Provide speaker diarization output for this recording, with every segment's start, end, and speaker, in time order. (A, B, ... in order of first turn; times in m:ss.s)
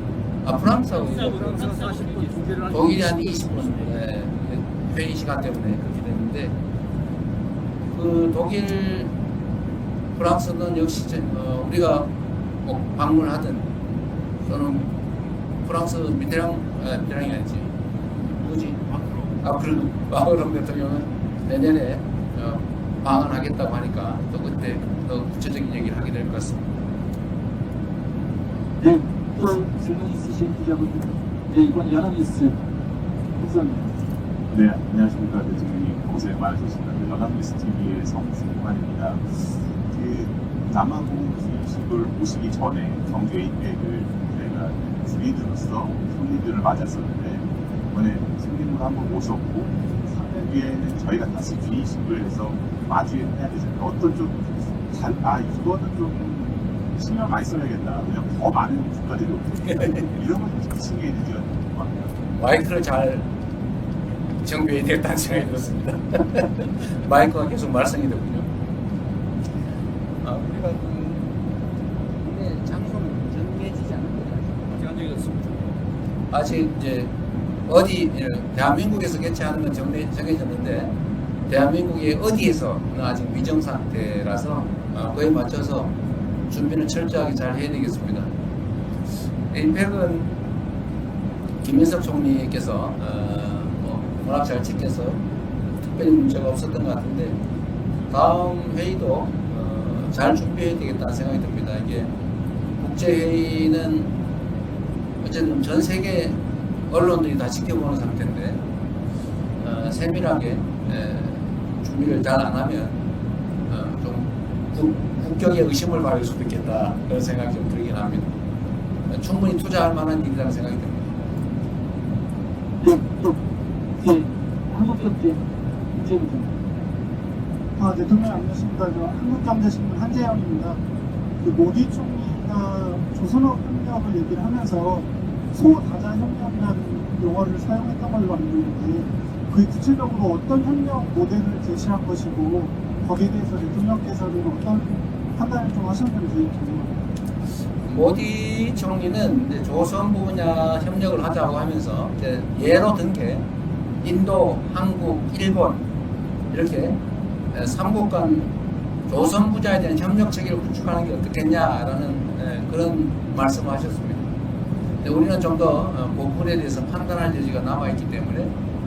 0:00.4-0:01.7 A
0:01.0-0:02.9 B
0:02.7-0:06.6 A
0:07.9-0:09.1 A
0:10.1-0:12.1 A
0:12.6-0:13.7 A
0:14.4-0:15.0 A
0:15.6-0:17.7 A
0:18.3-0:18.8 A
0:19.4-0:26.6 A
0:28.8-0:32.6 C
0:33.4-0:34.0 C
0:34.5-1:02.2 D
1:02.4-1:03.3 A
1:04.4-1:08.5 A
1:10.2-1:11.3 A
1:12.1-1:14.7 A
1:15.1-1:15.4 B
1:16.3-1:17.1 A
1:17.6-1:20.9 A
1:21.5-1:26.0 A
1:26.5-1:28.3 A
1:29.5-1:30.3 A
1:31.6-1:35.2 A
1:35.8-1:37.4 A
1:38.1-1:42.1 A
1:42.8-1:44.1 A
1:45.2-1:48.6 A
1:49.6-1:53.0 A
1:53.7-1:58.3 A
1:59.1-2:01.3 A
2:02.8-2:03.4 C
2:04.0-2:05.4 C
2:05.9-2:06.6 C
2:07.8-2:10.8 E
2:11.4-2:26.9 E
2:27.8-2:33.5 A
2:34.0-2:35.8 A
2:36.5-2:37.0 A
2:37.5-2:38.5 A
2:39.1-2:44.3 A
2:45.0-2:48.5 A